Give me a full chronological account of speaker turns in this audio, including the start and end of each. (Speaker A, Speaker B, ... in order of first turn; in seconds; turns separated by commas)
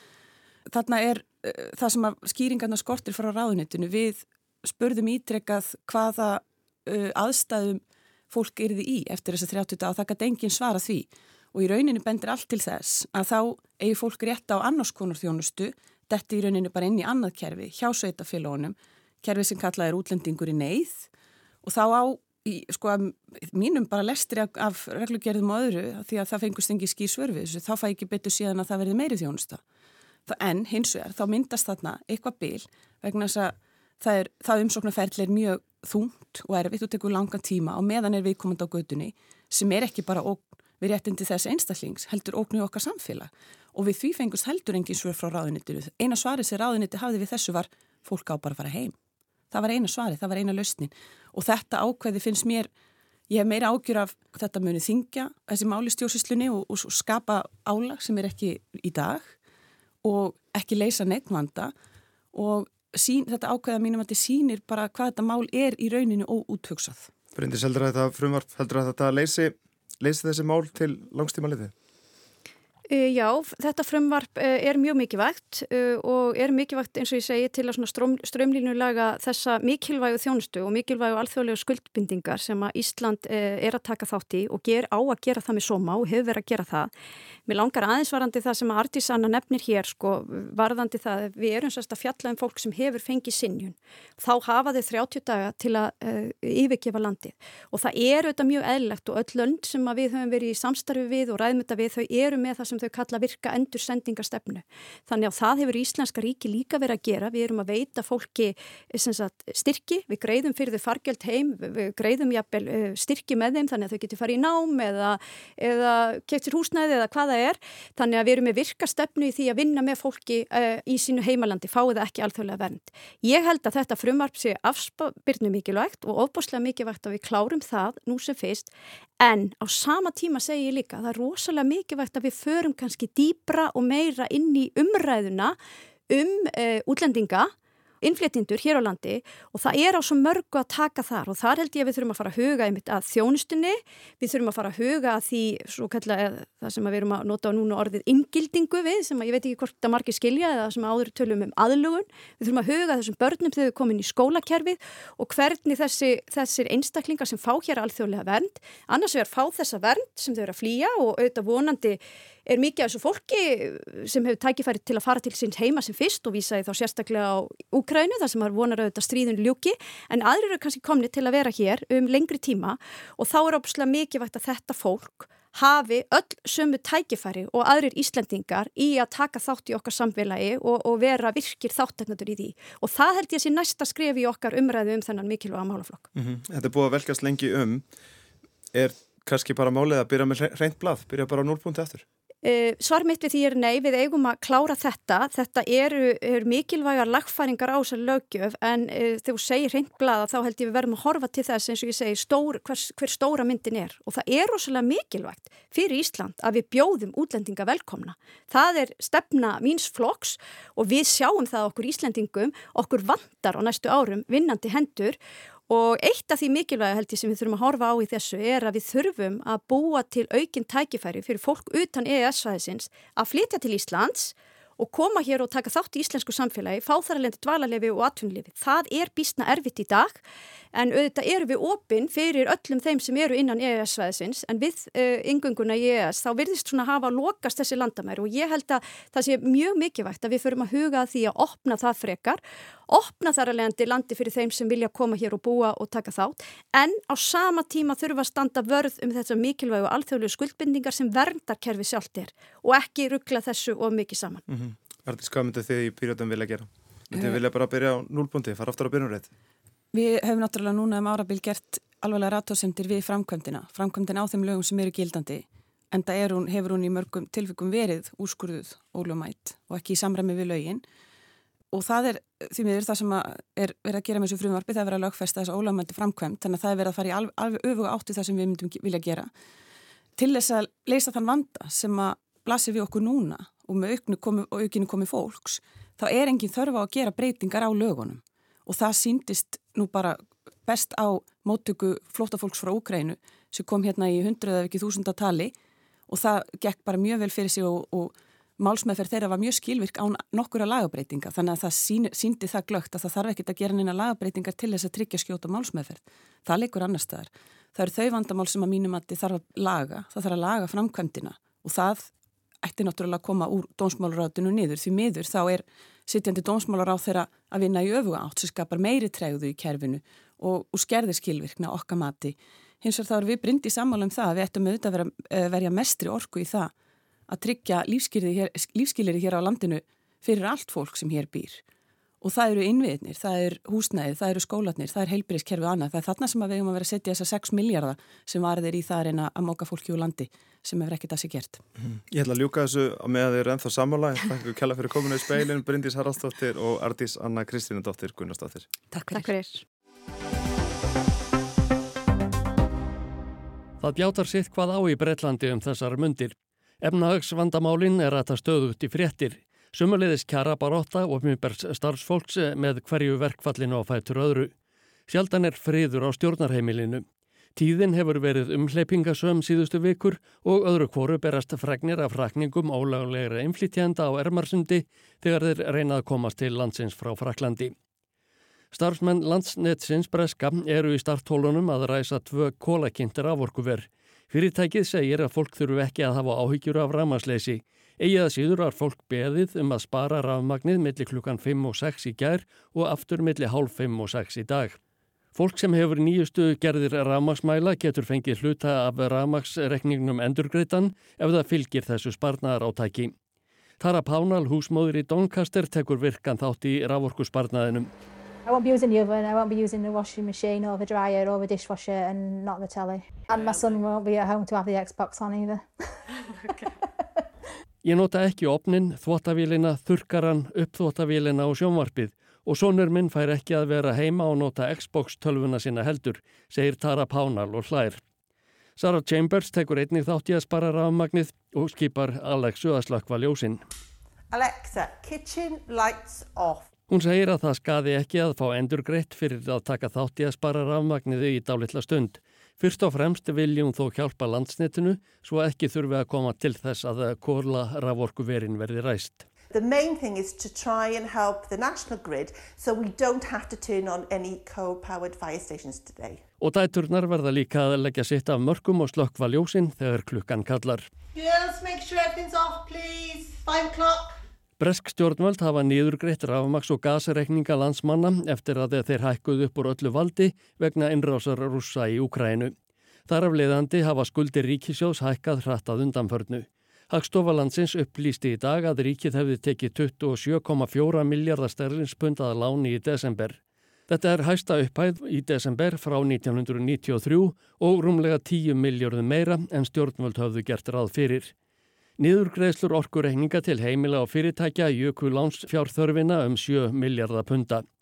Speaker A: 0.7-21.1, Speaker A: 21.6-29.6, Speaker A: 30.3-48.9, Speaker A: 49.5-52.7, Speaker A: 53.3-59.3, Speaker A: 60.0-61.7, Speaker A: 62.3-67.1, Speaker B: 67.3-71.7, Speaker C: 72.9-86.9, Speaker C: 87.5-135.6, Speaker C: 136.1-186.1, Speaker B: 186.1-187.9, Speaker B: 188.7-192.0, Speaker C: 192.4-215.2, Speaker C: 215.7-230.2, Speaker C: 230.7-254.4, Speaker B: 254.5-259.3, Speaker A: 257.1-257.4, Speaker A: 259.9-270.8, Speaker A: 271.7-279.3, Speaker A: 280.2-295.5, Speaker A: 296.1-312.1, Speaker A: 312.6-326.7, Speaker A: 327.3-331.6, Speaker A: 332.2-341.6, Speaker B: 341.8-348.7, Speaker A: 348.9-349.3, Speaker C: 349.1-349.6, Speaker D: 353.8-364.5, Speaker D: 365.1-367.0, Speaker D: 367.6-377.7, Speaker D: 378.7-394.8, Speaker D: 395.3-403.1, Speaker D: 403.8-407.9, Speaker E: 408.4-415.6, Speaker D: 417.8-428.0, Speaker D: 428.8-433.6, Speaker F: 434.3-436.7, Speaker D: 436.9-449.3, Speaker F: 449.5-456.2, Speaker D: 456.4-460.9, Speaker F: 461.1-464.1, Speaker D: 464.6-472.5, Speaker D: 473.1-491.3, Speaker D: 492.0-497.6